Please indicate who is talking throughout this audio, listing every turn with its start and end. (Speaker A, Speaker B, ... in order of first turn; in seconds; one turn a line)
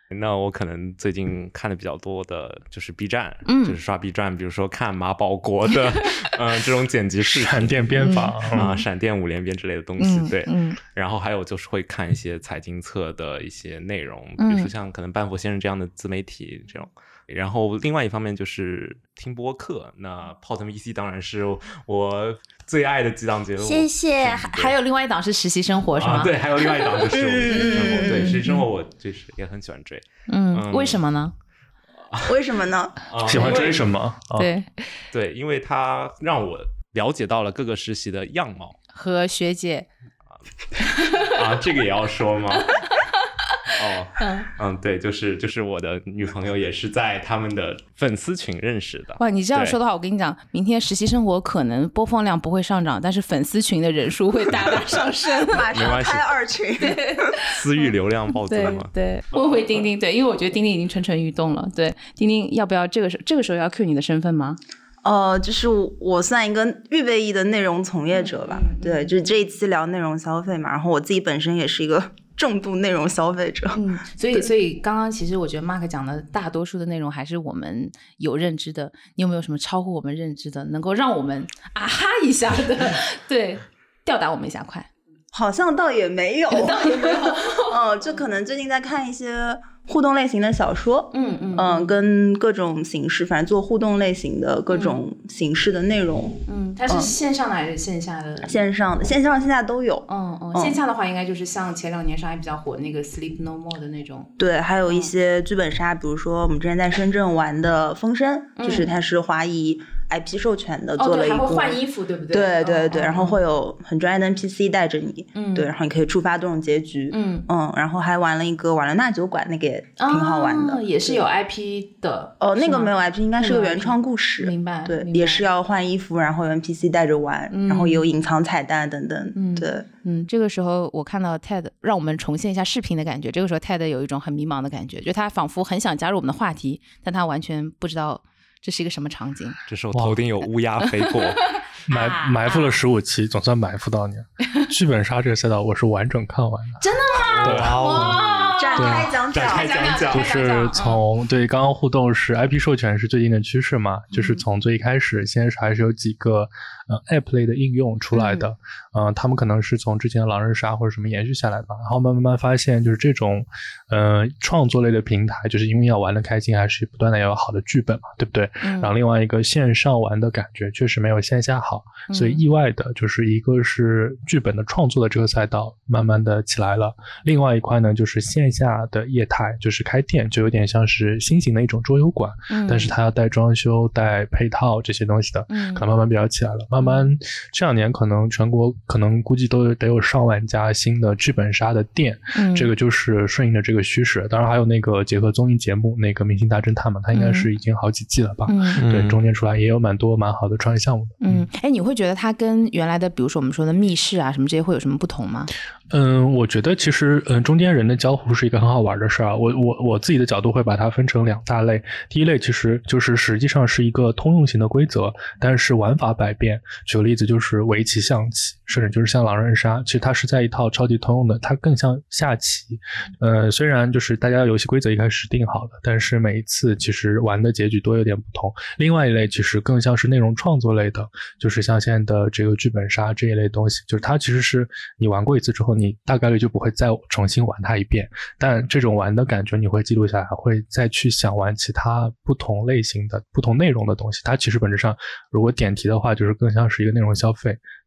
Speaker A: 0.1-24.7
Speaker B: 3.5-3.8
Speaker C: 7.2-8.7
Speaker B: 7.9-8.8
Speaker B: 10.0-10.8
Speaker B: 14.4-14.7
Speaker B: 23.6-28.6
Speaker A: 26.0-31.0
Speaker D: 27.1-28.4
Speaker B: 30.3-31.3
Speaker D: 32.2-33.0
Speaker A: 33.1-33.9
Speaker C: 33.2-34.5
Speaker B: 33.4-33.6
Speaker B: 34.3-34.9
Speaker A: 35.1-38.8
Speaker B: 38.9-39.9
Speaker B: 40.9-41.3
Speaker A: 41.0-42.8
Speaker B: 42.6-44.5
Speaker A: 43.7-49.8
Speaker B: 49.2-55.7
Speaker D: 54.9-57.3
Speaker A: 55.7-56.4
Speaker B: 56.8-57.6
Speaker A: 57.4-58.9
Speaker B: 58.4-64.6
Speaker D: 65.0-73.8
Speaker B: 68.1-69.1
Speaker B: 73.7-84.9
Speaker D: 85.3-97.1
Speaker B: 86.5-87.8
Speaker B: 91.1-91.9
Speaker B: 94.7-95.0
Speaker B: 96.5-98.6
Speaker D: 98.4-100.8
Speaker B: 100.1-104.3
Speaker D: 104.4-111.8
Speaker B: 108.6-108.9
Speaker B: 111.0-113.4
Speaker D: 112.3-121.2
Speaker B: 115.3-115.7
Speaker B: 117.1-117.5
Speaker B: 120.0-125.4
Speaker D: 122.4-129.9
Speaker B: 127.5-128.1
Speaker B: 129.3-139.6
Speaker A: 139.7-141.6
Speaker B: 141.9-142.8
Speaker C: 141.9-146.8
Speaker B: 146.8-151.0
Speaker A: 147.1-150.3
Speaker C: 147.4-148.2
Speaker D: 148.6-150.0
Speaker C: 148.8-149.1
Speaker C: 150.1-201.4
Speaker B: 158.1-158.5
Speaker B: 168.6-168.9
Speaker B: 172.1-172.4
Speaker B: 182.5-182.9
Speaker B: 185.5-185.8
Speaker B: 186.8-187.0
Speaker B: 192.3-192.7
Speaker B: 197.1-197.5
Speaker B: 198.5-198.8
Speaker A: 198.8-199.2
Speaker B: 201.2-205.5
Speaker C: 205.9-247.6